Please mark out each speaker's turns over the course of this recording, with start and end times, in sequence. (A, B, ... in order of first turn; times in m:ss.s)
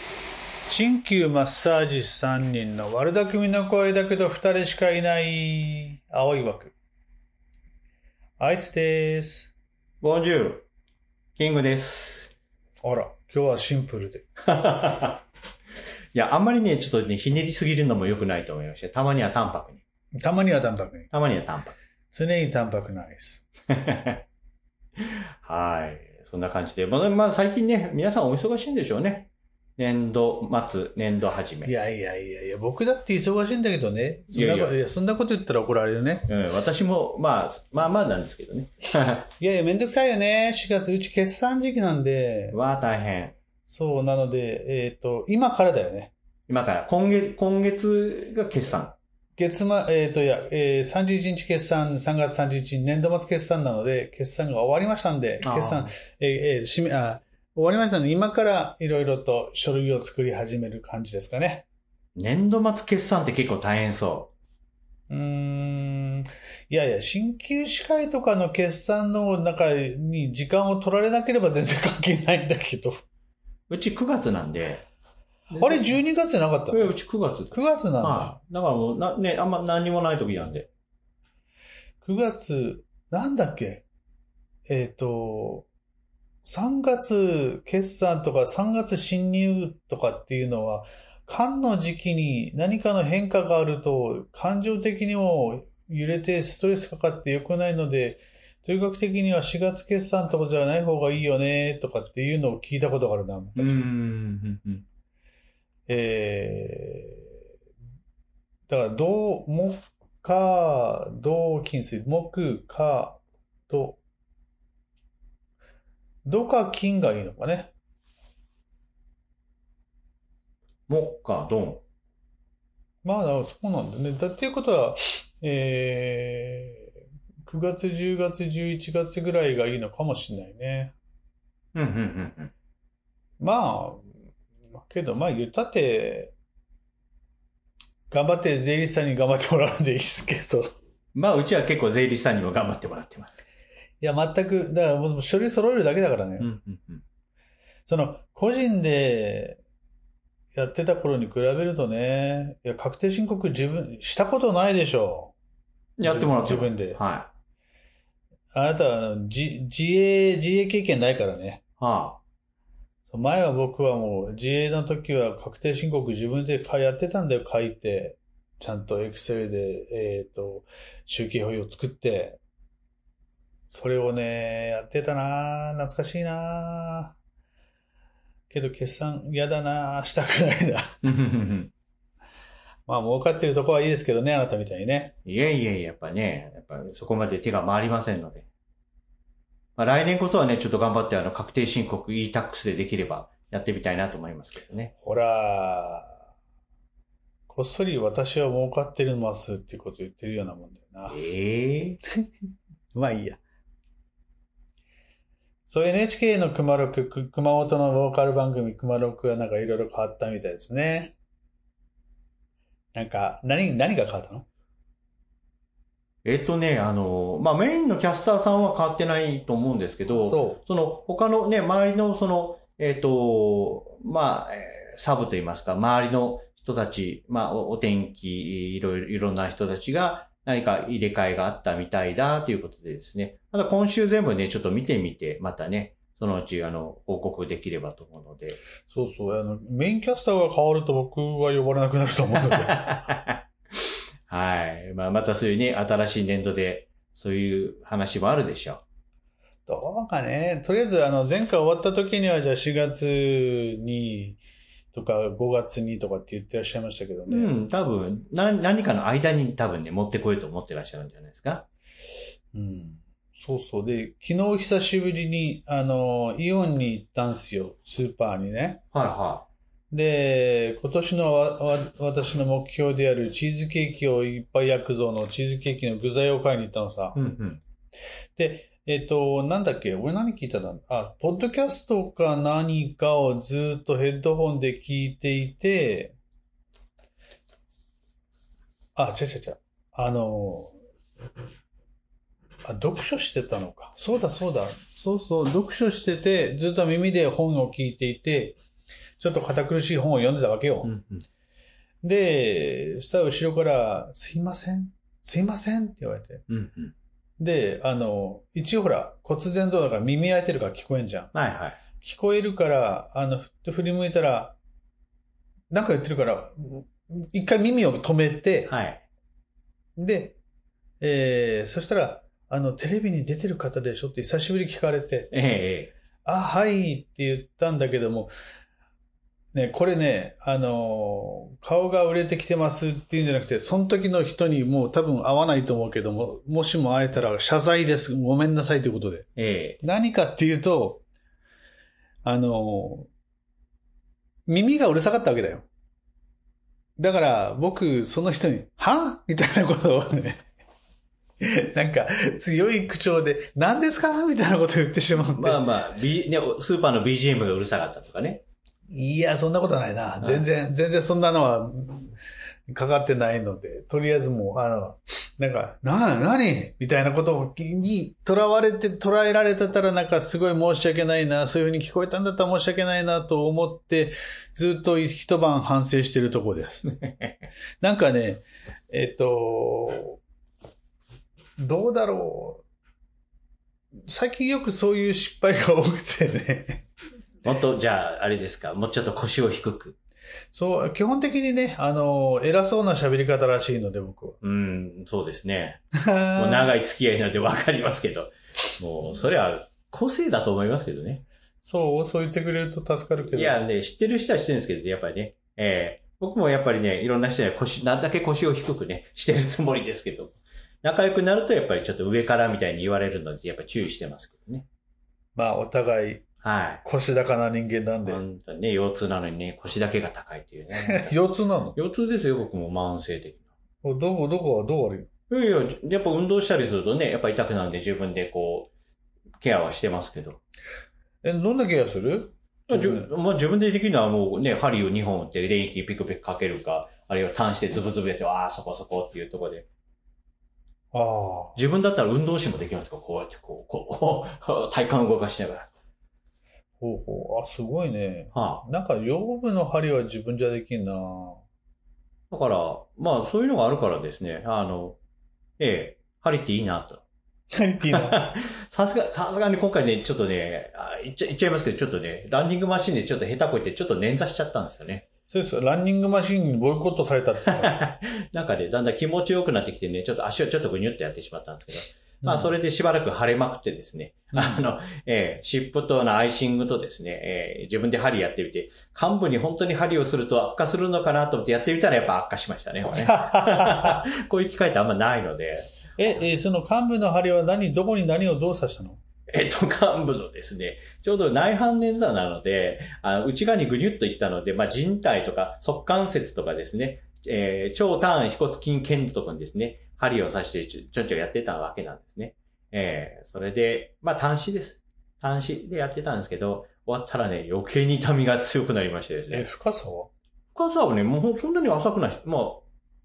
0:00.7-0:06.7 A
0:08.4-0:09.5 A
0:10.0-0:10.7 B
0:11.4-0:12.3 B
0:12.8-0:14.3 A
0:14.4-0:15.2 B
0:16.1-0:19.8 B
0:20.2-0:21.1 A
0:21.1-0:21.8 B
0:22.1-0:23.5 A
0:23.7-0:24.2 B
0:25.0-0:31.7 B
0:31.6-0:36.3 A
0:34.3-0:34.8 B
0:36.3-0:39.3 B
0:39.4-0:42.6 A
0:42.5-0:43.3 B
0:43.7-0:46.1 A
0:46.5-0:49.0 B
0:49.4-1:01.6 A
0:55.4-0:55.9 B
1:02.2-1:04.3 B
1:05.1-1:13.0 A
1:13.7-1:14.8 B
1:15.5-1:16.0 B
1:15.6-1:17.0 A
1:16.7-1:20.7 B
1:17.5-1:18.3 A
1:22.0-1:23.8 A
1:24.7-1:25.7 A
1:26.4-1:43.9 A
1:43.6-1:44.8 B
1:45.9-1:47.2 A
1:48.7-1:54.0 A
1:56.2-1:57.7 A
2:00.9-2:01.8 B
2:03.0-2:06.9 A
2:07.5-2:10.9 A
2:11.8-2:12.5 B
2:13.4-2:14.1 A
2:14.8-2:16.3 A
2:18.1-2:20.7 A
2:21.1-2:23.4 B
2:24.0-2:26.5 A
2:26.4-2:27.0 B
2:27.9-2:29.6 A
2:30.6-2:35.3 A
2:36.0-2:37.3 B
2:36.0-2:37.0 A
2:38.5-2:41.6 A
2:41.8-2:42.2 B
2:43.1-2:52.4 A
2:53.7-2:57.1 A
2:58.5-3:01.0 A
3:01.0-3:01.7 B
3:02.9-3:05.2 A
3:05.2-3:08.5 B
3:09.8-3:14.9 B
3:15.0-3:16.2 A
3:17.5-3:21.2 A
3:21.1-3:22.0 B
3:22.9-3:23.4 A
3:25.7-3:31.1 A
3:33.0-3:34.5 A
3:36.2-3:58.6 B
3:40.1-3:40.6 A
3:58.9-4:02.9 A
4:02.4-4:08.8 B
4:09.7-4:14.4 A
4:14.9-4:17.5 A
4:17.3-4:21.7 B
4:22.5-4:28.8 A
4:28.9-4:29.5 B
4:29.9-4:37.2 A
4:37.2-4:37.6 B
4:38.4-4:46.2 A
4:49.0-4:50.8 A
4:52.6-4:58.6 A
4:59.2-5:00.9 A
5:00.8-5:01.2 B
5:02.0-5:06.4 A
5:06.5-5:06.9 B
5:07.4-5:11.3 A
5:11.3-5:11.8 B
5:12.0-5:14.6 A
5:15.7-5:18.7 A
5:18.7-5:19.0 B
5:20.0-5:20.4 A
5:21.0-5:25.3 A
5:25.3-5:25.9 B
5:26.2-5:28.3 A
5:29.5-5:39.3 A
5:39.4-5:39.8 B
5:39.8-5:41.0 A
5:42.2-5:43.1 A
5:44.5-5:45.7 A
5:47.0-5:50.4 A
5:51.4-5:55.6 A
5:55.4-5:58.4 B
5:58.9-6:02.2 A
6:02.7-6:16.9 A
6:16.8-6:17.5 B
6:17.8-6:20.2 A
6:21.6-6:22.6 A
6:24.1-6:26.8 A
6:27.4-6:30.0 B
6:30.5-6:34.4 A
6:34.4-6:35.8 B
6:36.0-6:36.7 A
6:36.4-6:41.2 B
6:41.6-6:43.6 A
6:43.2-6:54.7 B
6:55.4-6:56.2 A
6:56.4-6:56.8 B
6:56.8-6:58.2 A
6:58.0-7:01.2 B
7:00.8-7:01.8 A
7:01.8-7:03.4 B
7:03.8-7:05.1 A
7:05.3-7:08.7 B
7:09.4-7:10.4 B
7:11.2-7:13.1 A
7:12.7-7:19.7 B
7:20.9-7:21.6 A
7:21.6-7:25.7 B
7:26.8-7:31.4 A
7:28.3-7:28.6 B
7:32.3-7:35.0 B
7:35.6-7:37.0 B
7:37.5-7:38.2 A
7:37.9-7:45.0 B
7:45.3-7:47.8 A
7:47.5-8:06.2 B
7:52.2-7:52.5 A
7:54.3-7:54.6 A
8:03.0-8:04.0 A
8:06.0-8:09.0 A
8:09.3-8:29.5 B
8:29.3-8:30.1 A
8:30.6-8:32.6 B